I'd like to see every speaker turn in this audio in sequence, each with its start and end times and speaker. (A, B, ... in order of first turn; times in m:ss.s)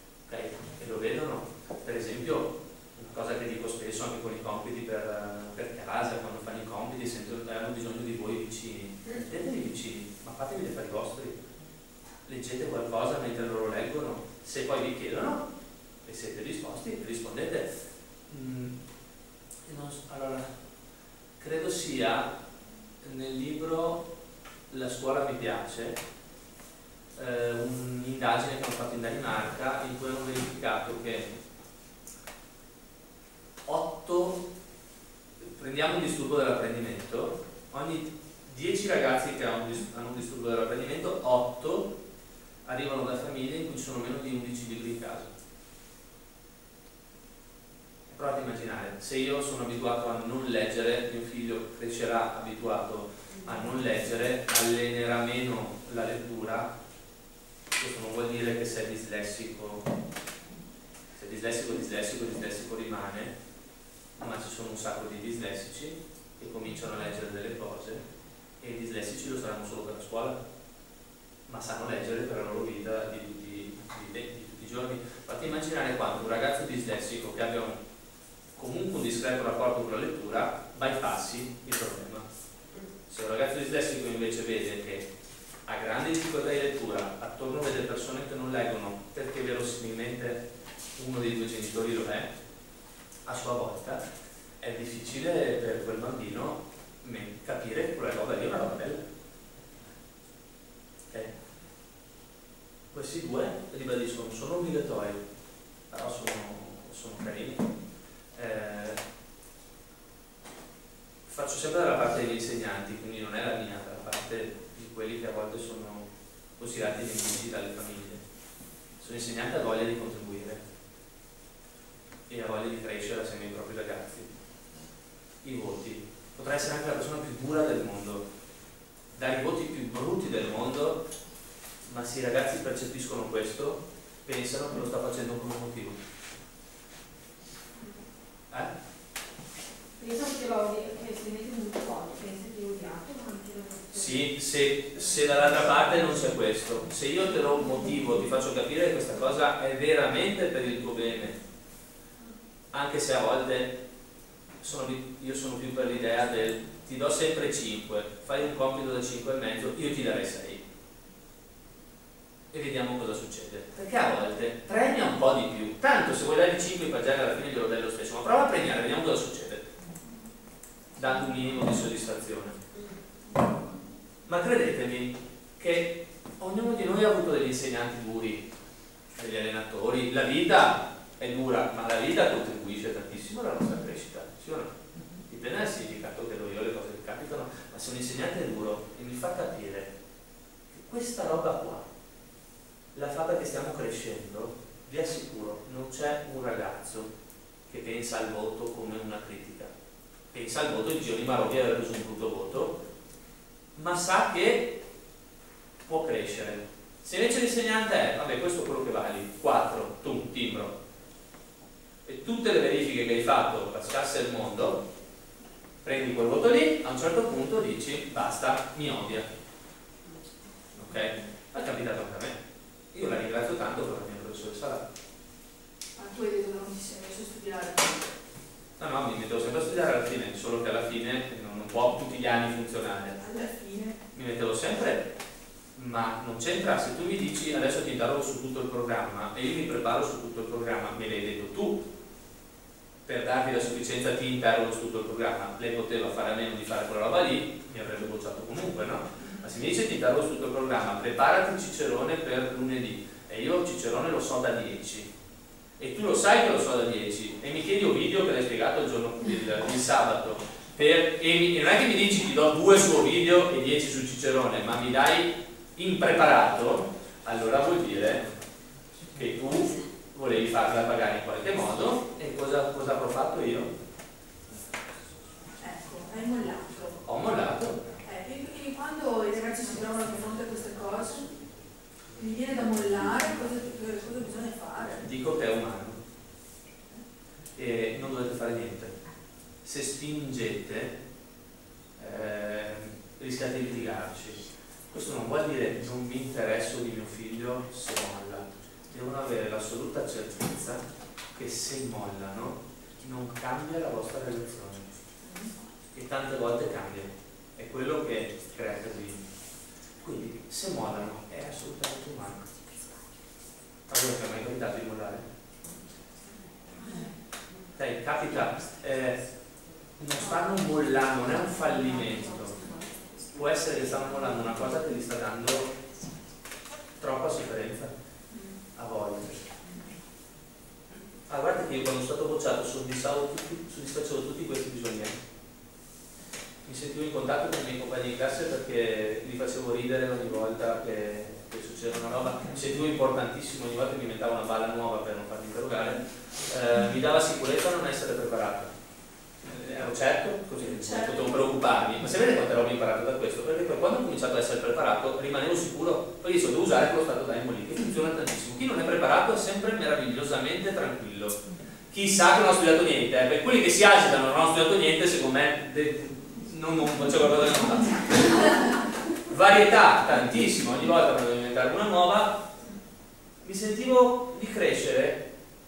0:00.3-0:11.4 A
0:12.2-0:15.5 A
0:16.0-0:17.7 A
0:18.3-0:18.8 A
0:19.7-0:20.5 A
0:21.4-0:22.3 A
0:23.0-0:24.1 A
0:24.7-0:26.0 A
0:27.2-0:31.3 A
0:33.7-0:34.4 A
0:35.4-0:41.9 A
0:42.6-0:45.3 A
0:48.1-0:56.7 A
0:57.8-0:59.9 A
1:01.2-1:03.3 A
1:04.2-1:08.0 A
1:08.6-1:10.4 A
1:11.5-1:17.8 A
1:18.6-1:22.2 A
1:23.1-1:25.1 A
1:25.7-1:30.4 A
1:31.0-1:32.3 A
1:33.2-1:34.0 A
1:34.6-1:39.0 A
1:42.9-1:45.2 A
1:45.9-1:47.7 A
1:48.3-1:49.0 A
1:51.2-1:58.2 A
1:59.0-2:00.6 A
2:02.3-2:04.3 A
2:05.4-2:08.2 A
2:09.1-2:11.0 A
2:11.8-2:16.0 A
2:20.0-2:23.9 B
2:23.9-2:31.4 A
2:32.7-2:33.8 A
2:34.6-2:40.6 A
2:42.5-2:49.6 A
2:51.0-2:52.6 A
2:53.4-2:53.6 B
2:54.3-2:58.5 A
2:59.2-3:04.7 A
3:05.3-3:09.9 A
3:10.7-3:11.9 A
3:12.9-3:17.1 A
3:17.7-3:19.7 A
3:20.3-3:22.8 A
3:23.8-3:24.8 A
3:25.8-3:30.8 A
3:32.0-3:34.8 A
3:35.8-3:39.2 A
3:40.7-3:42.4 A
3:42.9-3:44.9 A
3:46.0-3:48.1 B
3:48.8-3:53.2 A
3:53.2-3:54.0 B
3:54.1-3:55.1 A
3:55.8-4:01.8 A
4:03.1-4:15.1 A
4:15.8-4:28.3 A
4:29.1-4:33.7 A
4:35.6-4:37.0 B
4:37.0-4:37.8 A
4:38.0-4:41.3 B
4:42.1-4:44.9 B
4:44.8-4:46.0 A
4:47.6-4:49.0 A
4:49.6-4:51.0 A
4:52.0-5:04.9 A
5:05.9-5:09.2 A
5:10.0-5:12.5 A
5:13.9-5:15.2 A
5:16.8-5:17.1 B
5:17.8-5:19.2 A
5:20.0-5:22.6 A
5:23.3-5:25.7 A
5:27.0-5:27.9 A
5:28.8-5:29.5 A
5:31.3-5:35.2 A
5:36.6-5:48.7 A
5:49.4-6:12.5 A
6:13.4-6:15.2 A